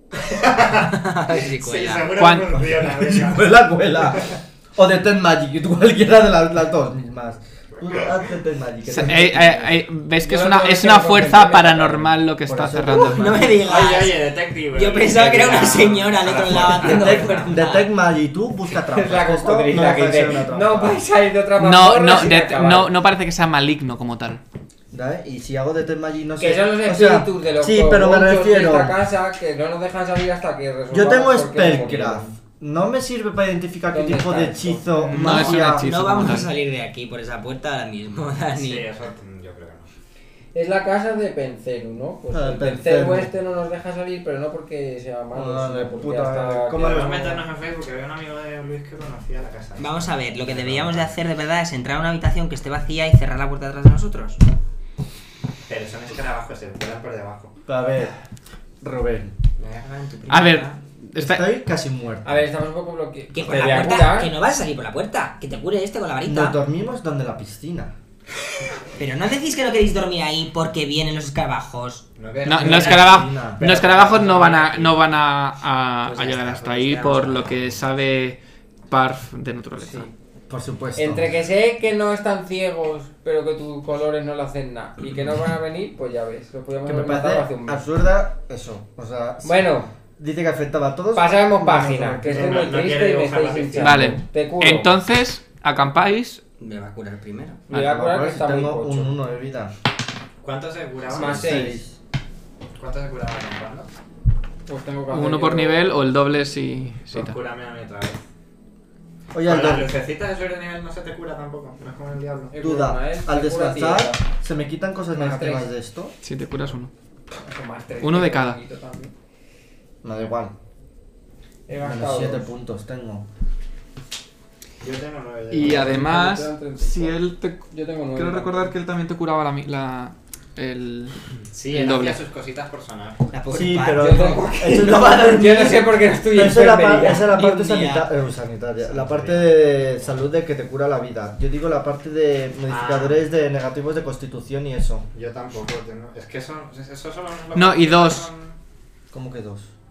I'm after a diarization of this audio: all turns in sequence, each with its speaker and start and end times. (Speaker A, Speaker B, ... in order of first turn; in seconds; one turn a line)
Speaker A: 0.2-3.9
Speaker B: 0.8-2.1
Speaker C: 2.2-2.7
Speaker D: 2.8-9.9
Speaker C: 8.9-13.4
Speaker E: 10.2-12.2
Speaker D: 12.4-13.6
Speaker B: 12.9-17.9
Speaker A: 13.6-17.5
Speaker D: 16.5-21.0
Speaker E: 18.8-22.9
Speaker C: 21.6-24.4
Speaker D: 24.9-29.0
Speaker E: 26.4-32.4
Speaker D: 30.9-35.9
Speaker E: 33.9-35.5
Speaker C: 35.1-36.5
Speaker B: 35.3-38.9
Speaker A: 38.6-39.9
Speaker E: 40.5-47.4
Speaker D: 42.3-43.3
Speaker D: 45.3-47.4
Speaker A: 46.7-51.2
Speaker B: 49.8-54.4
Speaker A: 55.7-57.5
Speaker D: 57.7-58.1
Speaker D: 58.8-59.4
Speaker B: 59.6-60.8
Speaker C: 60.3-61.5
Speaker D: 61.2-62.5
Speaker E: 62.2-64.3
Speaker B: 63.3-66.6
Speaker D: 66.2-67.9
Speaker B: 69.0-72.1
Speaker A: 72.2-75.1
Speaker C: 72.4-78.4
Speaker D: 72.5-73.6
Speaker B: 76.1-77.6
Speaker A: 77.0-77.4
Speaker C: 78.9-80.1
Speaker E: 79.8-80.1
Speaker D: 80.5-81.3
Speaker E: 81.0-87.8
Speaker D: 86.8-89.7
Speaker E: 89.4-89.9
Speaker D: 90.2-92.7
Speaker E: 91.1-95.0
Speaker A: 92.3-94.0
Speaker C: 93.8-96.4
Speaker B: 96.6-97.6
Speaker E: 97.7-99.1
Speaker D: 97.7-99.7
Speaker A: 100.4-101.7
Speaker E: 101.1-101.8
Speaker D: 101.2-102.0
Speaker A: 102.8-103.9
Speaker E: 104.7-105.9
Speaker C: 105.1-107.4
Speaker A: 107.1-108.2
Speaker D: 109.3-109.9
Speaker A: 109.4-112.5
Speaker E: 112.5-114.2
Speaker D: 112.6-116.1
Speaker E: 115.1-115.7
Speaker C: 116.2-116.9
Speaker E: 117.4-119.1
Speaker C: 118.0-118.6
Speaker D: 120.0-120.5
Speaker E: 121.7-122.5
Speaker D: 121.8-123.3
Speaker A: 124.8-126.0
Speaker C: 125.5-131.2
Speaker E: 125.5-128.7
Speaker A: 131.4-133.3
Speaker C: 131.7-132.2
Speaker B: 133.3-134.9
Speaker D: 133.5-145.1
Speaker E: 133.9-137.5
Speaker B: 137.1-138.1
Speaker A: 138.8-139.7
Speaker A: 142.7-143.2
Speaker A: 145.1-148.6
Speaker C: 147.5-148.3
Speaker D: 149.1-149.7